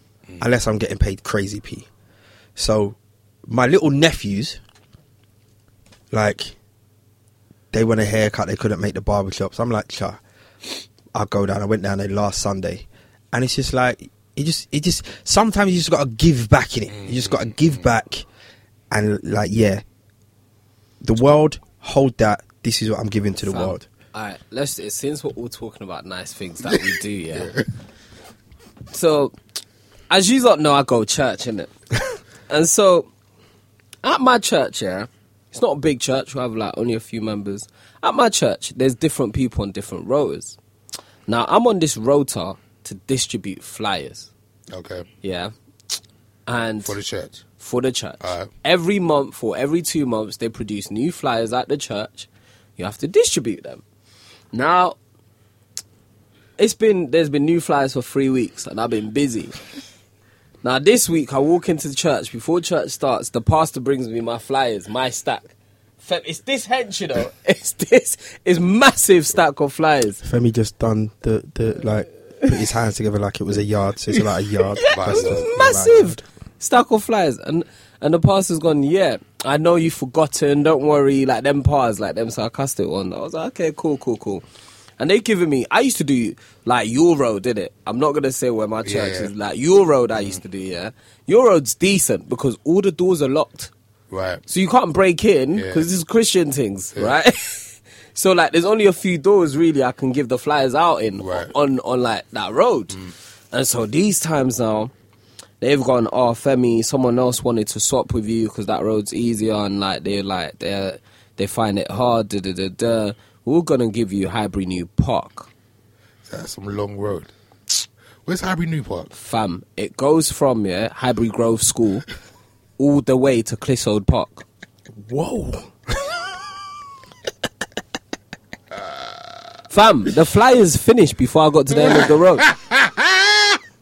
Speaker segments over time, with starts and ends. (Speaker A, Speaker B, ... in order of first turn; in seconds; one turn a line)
Speaker A: 0.4-1.9
Speaker A: 2.6-3.0
Speaker A: 3.5-4.6
Speaker A: 6.1-6.5
Speaker A: 7.7-10.2
Speaker A: 11.1-18.2
Speaker B: 16.9-17.6
Speaker A: 18.9-19.8
Speaker A: 21.0-23.9
Speaker C: 23.5-27.6
Speaker B: 27.4-27.6
Speaker C: 28.9-29.4
Speaker C: 30.1-31.7
Speaker C: 32.5-33.1
Speaker C: 34.0-40.6
Speaker C: 41.3-44.3
Speaker B: 44.7-45.1
Speaker C: 45.2-45.5
Speaker C: 46.5-47.0
Speaker B: 46.8-47.4
Speaker C: 47.6-53.8
Speaker B: 48.2-48.5
Speaker C: 54.5-55.0
Speaker C: 56.6-59.6
Speaker C: 60.6-65.5
Speaker C: 66.0-70.2
Speaker A: 70.2-76.2
Speaker C: 74.8-84.4
Speaker B: 74.9-75.5
Speaker C: 85.0-93.7
Speaker B: 88.8-89.3
Speaker B: 94.1-94.4
Speaker C: 94.5-103.0
Speaker B: 95.5-95.9
Speaker B: 101.2-101.5
Speaker C: 103.5-104.9
Speaker C: 105.6-115.5
Speaker B: 116.3-117.3
Speaker B: 118.3-119.1
Speaker C: 119.1-122.1
Speaker C: 122.8-124.5
Speaker A: 125.1-125.7
Speaker C: 129.7-132.5
Speaker B: 131.7-133.6